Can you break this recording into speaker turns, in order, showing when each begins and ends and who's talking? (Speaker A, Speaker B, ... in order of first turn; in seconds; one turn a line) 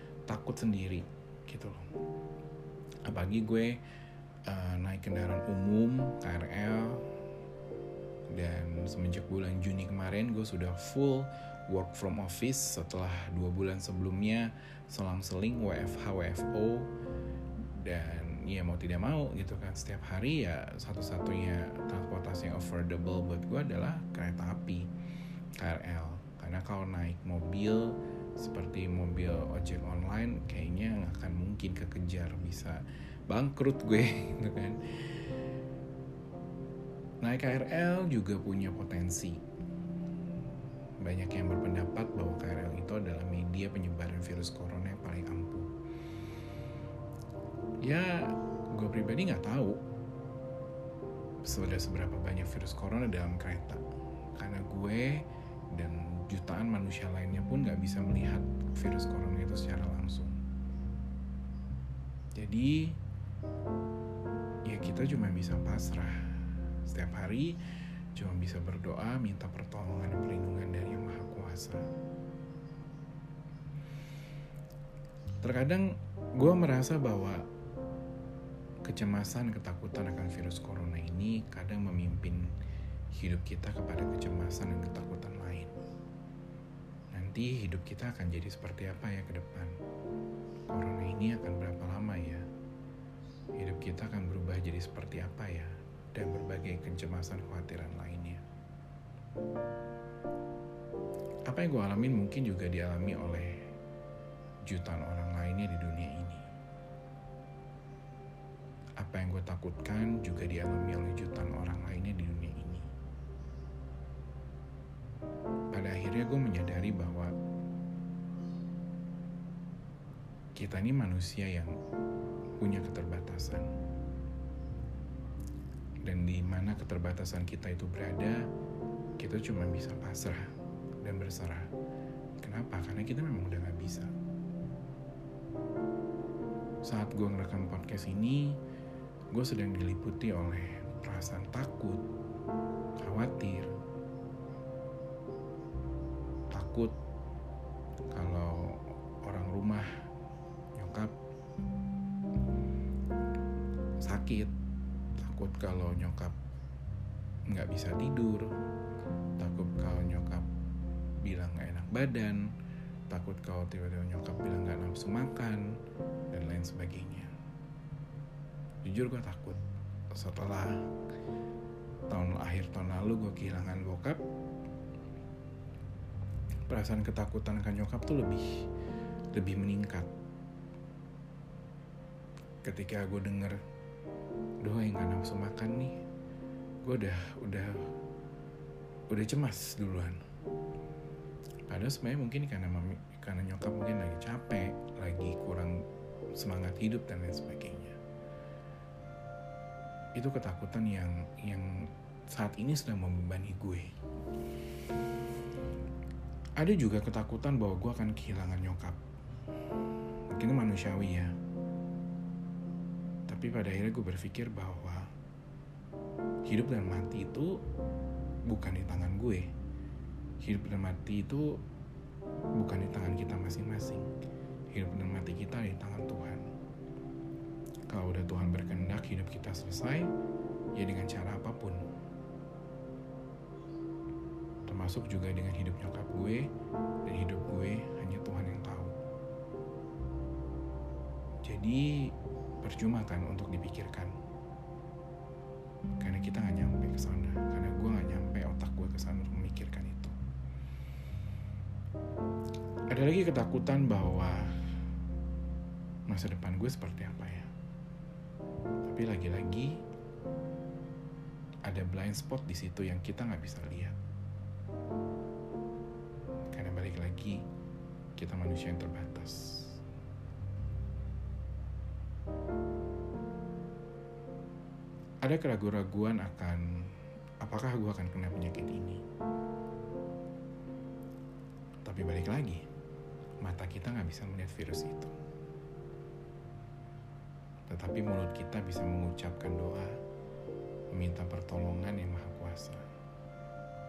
Speaker A: 0.3-1.9
Speaker A: 3.1-3.8
Speaker A: 4.5-7.0
Speaker A: 8.3-16.9
Speaker A: 17.6-24.9
Speaker A: 25.6-35.3
Speaker A: 37.2-39.4
Speaker A: 41.0-45.7
Speaker A: 47.8-49.8
Speaker A: 51.5-53.8
Speaker A: 54.4-60.4
Speaker A: 62.4-63.0
Speaker A: 64.7-66.2
Speaker A: 66.9-71.8
Speaker A: 75.4-77.5
Speaker A: 78.8-82.5
Speaker A: 83.1-85.8
Speaker A: 87.1-89.8
Speaker A: 90.7-92.5
Speaker A: 93.6-98.4
Speaker A: 101.5-103.6
Speaker A: 104.7-106.5
Speaker A: 109.0-112.9
Speaker A: 115.7-117.3
Speaker A: 120.6-121.7
Speaker A: 122.6-123.7
Speaker A: 126.0-128.4
Speaker A: 129.2-130.5
Speaker A: 131.0-131.7
Speaker A: 132.4-134.1
Speaker A: 136.8-138.6
Speaker A: 139.3-142.1
Speaker A: 143.0-143.7
Speaker A: 146.5-147.0
Speaker A: 148.1-149.9
Speaker A: 150.8-151.2
Speaker A: 154.0-154.5
Speaker A: 155.2-156.4
Speaker A: 157.5-158.5
Speaker A: 159.4-160.5
Speaker A: 161.2-162.5
Speaker A: 163.1-165.8
Speaker A: 166.3-167.3
Speaker A: 168.8-170.8
Speaker A: 172.1-174.2
Speaker A: 176.7-178.6
Speaker A: 179.3-180.1
Speaker A: 182.6-183.6
Speaker A: 184.6-186.0
Speaker A: 186.8-187.9
Speaker A: 189.1-190.2
Speaker A: 191.7-195.8
Speaker A: 196.4-198.0
Speaker A: 200.2-203.9
Speaker A: 206.6-209.0
Speaker A: 210.3-211.3
Speaker A: 213.3-215.1
Speaker A: 216.4-217.6
Speaker A: 218.5-219.5
Speaker A: 220.4-221.6
Speaker A: 222.6-224.1
Speaker A: 224.7-226.5
Speaker A: 227.9-230.1
Speaker A: 230.8-231.8
Speaker A: 234.7-236.5
Speaker A: 237.1-239.0
Speaker A: 241.4-244.2
Speaker A: 246.0-250.1
Speaker A: 252.9-254.5
Speaker A: 256.1-257.5
Speaker A: 258.8-259.8
Speaker A: 261.7-264.0
Speaker A: 266.5-267.4
Speaker A: 268.2-269.8
Speaker A: 275.2-279.0
Speaker A: 281.8-282.6
Speaker A: 283.4-285.1
Speaker A: 287.7-290.0
Speaker A: 290.9-292.9